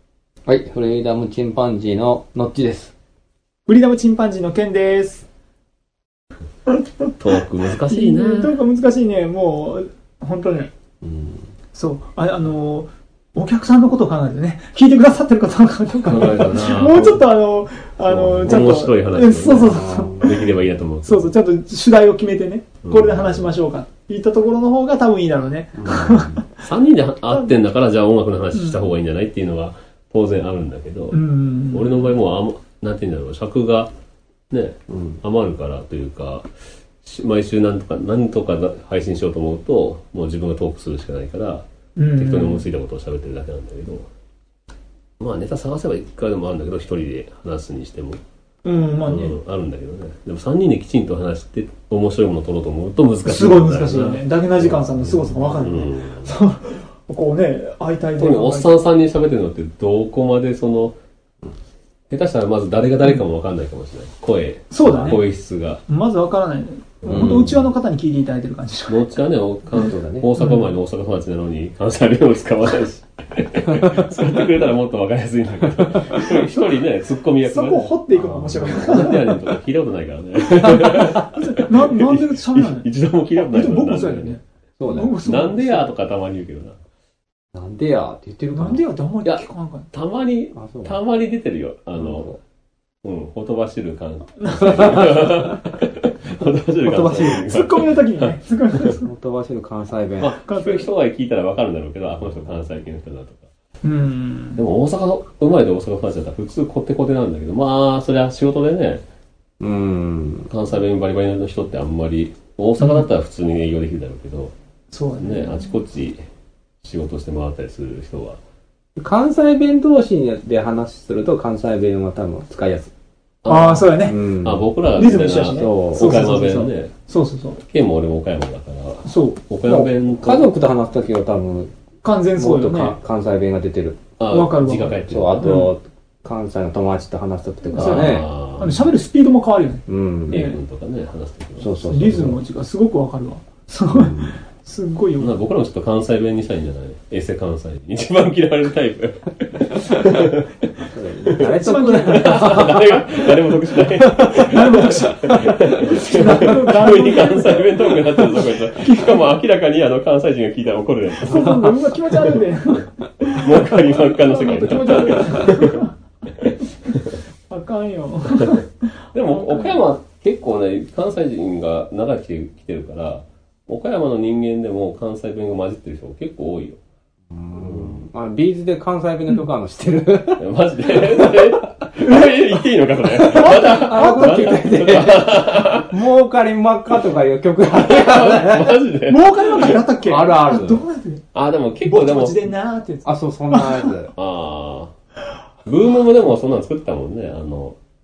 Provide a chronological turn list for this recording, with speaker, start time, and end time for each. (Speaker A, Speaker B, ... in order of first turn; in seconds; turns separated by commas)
Speaker A: 0.5-2.9, Speaker B: 3.7-5.3, Speaker B: 6.7-7.1, Speaker C: 7.2-8.6, Speaker B: 7.9-10.7, Speaker A: 11.0-11.5, Speaker B: 11.7-20.5, Speaker C: 16.1-17.2, Speaker C: 18.1-21.3, Speaker A: 19.7-20.3, Speaker B: 21.0-26.5, Speaker C: 22.8-23.5, Speaker A: 25.8-26.4, Speaker C: 26.6-33.9, Speaker B: 31.1-32.1, Speaker C: 34.5-36.5, Speaker A: 34.9-35.2, Speaker C: 37.0-41.7, Speaker B: 42.0-42.7, Speaker C: 42.2-44.1, Speaker C: 45.2-48.2, Speaker B: 48.6-49.4, Speaker C: 49.0-54.2, Speaker B: 53.2-58.7, Speaker A: 54.6-55.7, Speaker C: 55.0-56.3, Speaker C: 58.2-61.0, Speaker C: 62.1-65.8, Speaker B: 64.7-65.2, Speaker A: 64.9-65.2, Speaker B: 65.9-69.1, Speaker C: 67.0-67.7, Speaker A: 67.1-67.5, Speaker C: 68.9-78.0, Speaker A: 69.8-70.3, Speaker B: 70.4-70.7, Speaker A: 75.8-76.2, Speaker B: 77.4-79.4, Speaker A: 78.2-79.0, Speaker C: 78.6-84.4, Speaker B: 80.6-85.9, Speaker A: 84.8-85.2, Speaker C: 85.2-86.8, Speaker A: 87.5-88.8, Speaker B: 88.5-89.9, Speaker C: 89.2-92.4, Speaker A: 90.5-91.0, Speaker C: 93.0-98.9, Speaker B: 94.4-95.2, Speaker A: 96.8-97.4, Speaker B: 97.1-99.1, Speaker A: 99.0-100.4, Speaker C: 100.2-103.5, Speaker B: 100.5-100.9, Speaker B: 103.8-104.6, Speaker C: 104.6-109.0, Speaker A: 109.6-110.5, Speaker C: 110.5-114.5, Speaker B: 112.8-113.1, Speaker B: 114.9-115.7, Speaker C: 115.2-116.2, Speaker C: 116.8-118.4, Speaker A: 119.0-122.9, Speaker C: 123.4-127.0, Speaker B: 123.5-124.2, Speaker A: 124.0-124.7, Speaker B: 125.0-127.6, Speaker A: 125.4-126.3, Speaker C: 127.6-130.5, Speaker B: 129.1-129.8, Speaker A: 129.7-131.7, Speaker B: 132.0-133.0, Speaker A: 132.4-134.0, Speaker C: 134.2-135.7, Speaker B: 134.3-135.7, Speaker A: 135.1-138.3, Speaker B: 137.7-140.6, Speaker C: 137.8-138.8, Speaker A: 139.9-140.6, Speaker C: 140.3-142.3, Speaker A: 141.6-142.4, Speaker B: 141.8-145.3, Speaker A: 143.9-144.4, Speaker C: 145.2-161.7, Speaker A: 150.9-154.6, Speaker B: 151.4-152.6, Speaker B: 154.3-159.4, Speaker A: 155.3-155.8, Speaker B: 161.2-165.9, Speaker C: 163.2-167.2, Speaker B: 167.5-169.8, Speaker C: 169.1-176.8, Speaker A: 177.3-181.5, Speaker C: 177.6-178.1, Speaker C: 180.4-185.9, Speaker A: 183.1-188.8, Speaker B: 183.3-185.0, Speaker C: 187.8-189.8, Speaker B: 189.1-191.2, Speaker A: 190.0-190.9, Speaker C: 191.3-192.4, Speaker B: 191.8-193.9, Speaker A: 193.1-194.1, Speaker C: 194.2-194.9, Speaker C: 195.7-197.8